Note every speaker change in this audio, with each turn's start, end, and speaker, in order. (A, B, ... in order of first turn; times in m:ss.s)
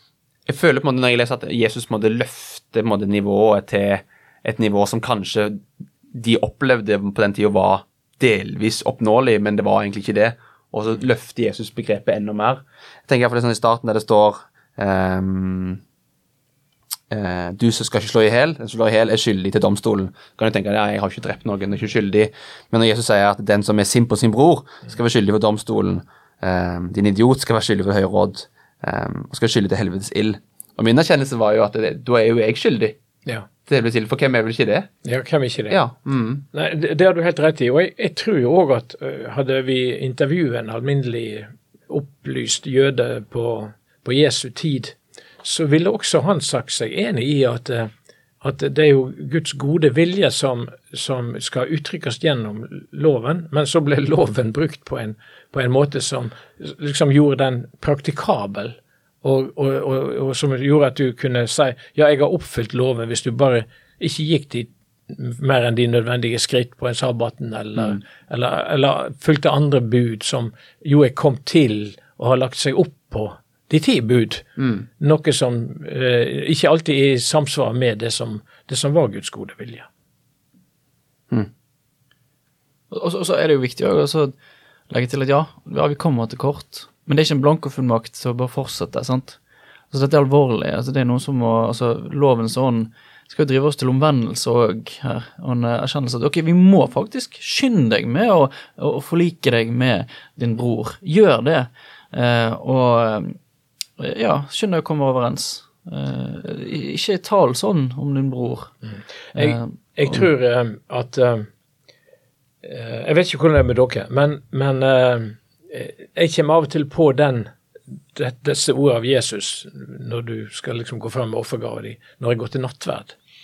0:00.5-0:15.8 A
0:17.1-0:33.0 A
0:33.6-0:34.9 A
0:35.0-0:35.8 B
0:35.7-0:36.4 A
0:36.5-1:14.5 B
1:14.6-1:14.8 A
1:15.0-1:19.9 B
1:22.9-1:24.3 C
1:24.9-1:29.4 C
1:29.9-1:43.4 C
1:44.0-1:48.7 C
1:49.3-1:51.5 B
1:49.4-1:49.8 C
1:52.6-1:57.5 B
1:58.1-2:03.2 B